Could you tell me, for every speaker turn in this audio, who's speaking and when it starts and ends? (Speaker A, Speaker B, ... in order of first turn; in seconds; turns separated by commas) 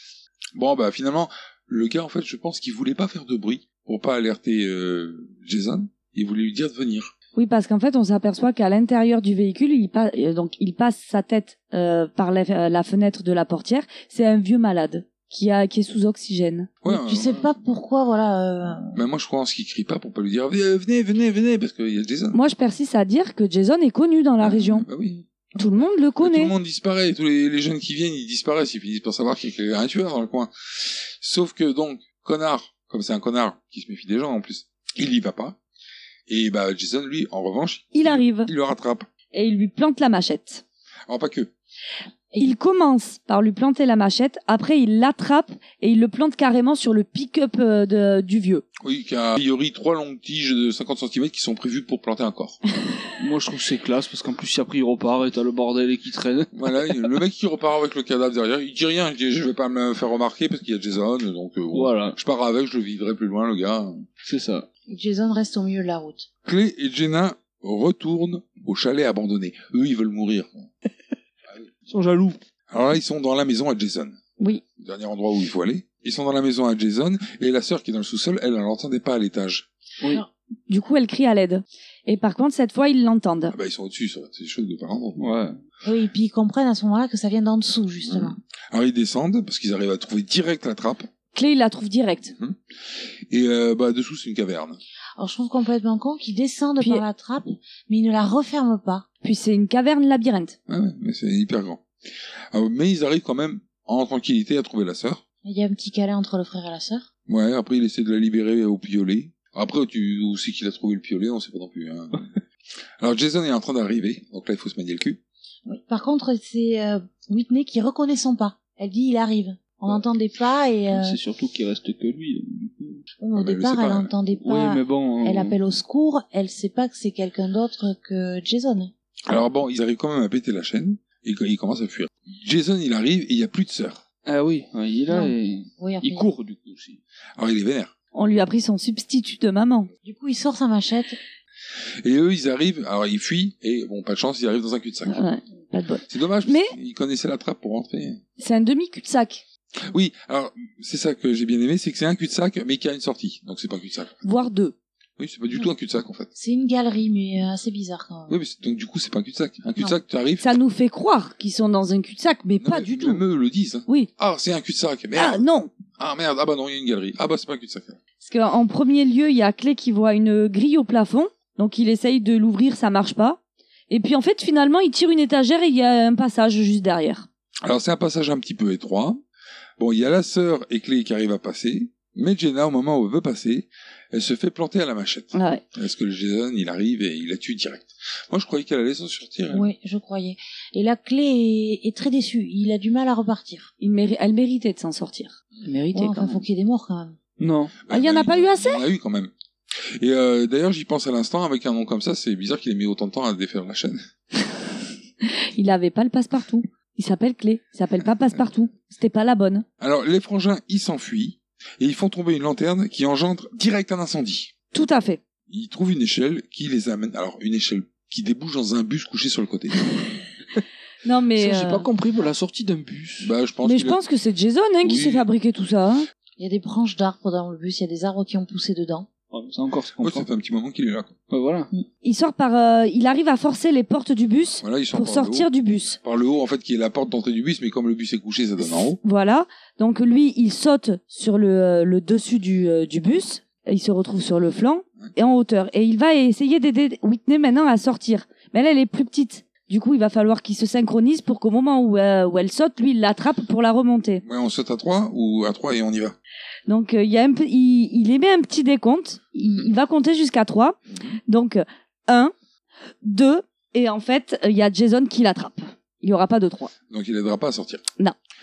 Speaker A: 0.5-7.1, Speaker B: 7.3-16.7, Speaker A: 16.8-17.5, Speaker C: 16.9-19.0, Speaker A: 18.9-22.4, Speaker B: 22.3-24.9, Speaker A: 24.4-35.6, Speaker B: 25.6-26.5, Speaker A: 36.3-39.1, Speaker B: 37.9-38.5, Speaker B: 39.3-40.6, Speaker A: 41.1-41.5, Speaker B: 42.4-48.6, Speaker A: 48.8-52.6, Speaker D: 53.2-57.1, Speaker A: 56.5-64.0, Speaker D: 61.7-62.2, Speaker D: 64.2-64.7, Speaker C: 64.9-66.3, Speaker A: 66.4-70.7, Speaker D: 71.9-72.4, Speaker A: 72.7-74.2, Speaker A: 74.8-79.7, Speaker B: 80.7-83.5, Speaker A: 83.5-85.3, Speaker D: 85.2-85.5, Speaker C: 85.8-88.3, Speaker A: 88.0-91.1, Speaker B: 91.3-92.3, Speaker A: 93.3-94.8, Speaker C: 95.2-99.0, Speaker B: 99.2-100.5, Speaker A: 100.7-101.8, Speaker A: 102.5-105.2, Speaker C: 105.4-107.0, Speaker A: 107.3-112.3, Speaker A: 113.0-115.2, Speaker C: 115.7-121.2, Speaker D: 120.9-123.0, Speaker C: 123.2-128.9, Speaker A: 123.3-124.1, Speaker D: 124.4-125.6, Speaker A: 129.3-134.0, Speaker D: 134.2-137.0, Speaker C: 135.1-136.3, Speaker A: 137.4-137.9, Speaker B: 138.1-139.9, Speaker C: 140.0-141.2, Speaker A: 142.0-145.2, Speaker B: 145.1-146.7, Speaker A: 146.1-148.2, Speaker B: 148.4-149.4, Speaker A: 149.8-154.2, Speaker B: 154.2-154.7, Speaker A: 155.2-156.3, Speaker C: 156.3-158.4, Speaker A: 158.3-160.5, Speaker B: 160.4-163.2, Speaker A: 162.6-165.4, Speaker B: 165.1-165.7, Speaker A: 166.0-168.0, Speaker B: 168.2-177.3, Speaker A: 177.6-179.2, Speaker A: 179.8-189.7, Speaker B: 185.3-185.6, Speaker C: 189.5-193.7, Speaker B: 193.8-195.3, Speaker C: 195.6-197.2, Speaker B: 195.9-196.4, Speaker D: 197.4-197.8, Speaker A: 197.8-199.3, Speaker B: 197.9-198.8, Speaker A: 200.0-204.0, Speaker B: 205.2-209.7, Speaker A: 208.0-208.4, Speaker A: 209.8-214.5, Speaker B: 214.7-215.2, Speaker A: 215.5-220.0, Speaker B: 221.0-221.8, Speaker D: 221.3-223.3, Speaker A: 223.2-224.0, Speaker B: 223.6-226.1, Speaker A: 224.8-225.3, Speaker C: 226.4-229.1, Speaker D: 229.3-230.3, Speaker A: 230.0-231.1, Speaker D: 231.3-231.7, Speaker B: 232.0-236.0, Speaker A: 234.6-235.5, Speaker A: 236.0-239.0, Speaker B: 239.0-254.2, Speaker A: 254.2-256.1, Speaker B: 256.7-262.3, Speaker A: 260.9-261.2, Speaker B: 263.0-266.7, Speaker A: 266.9-267.8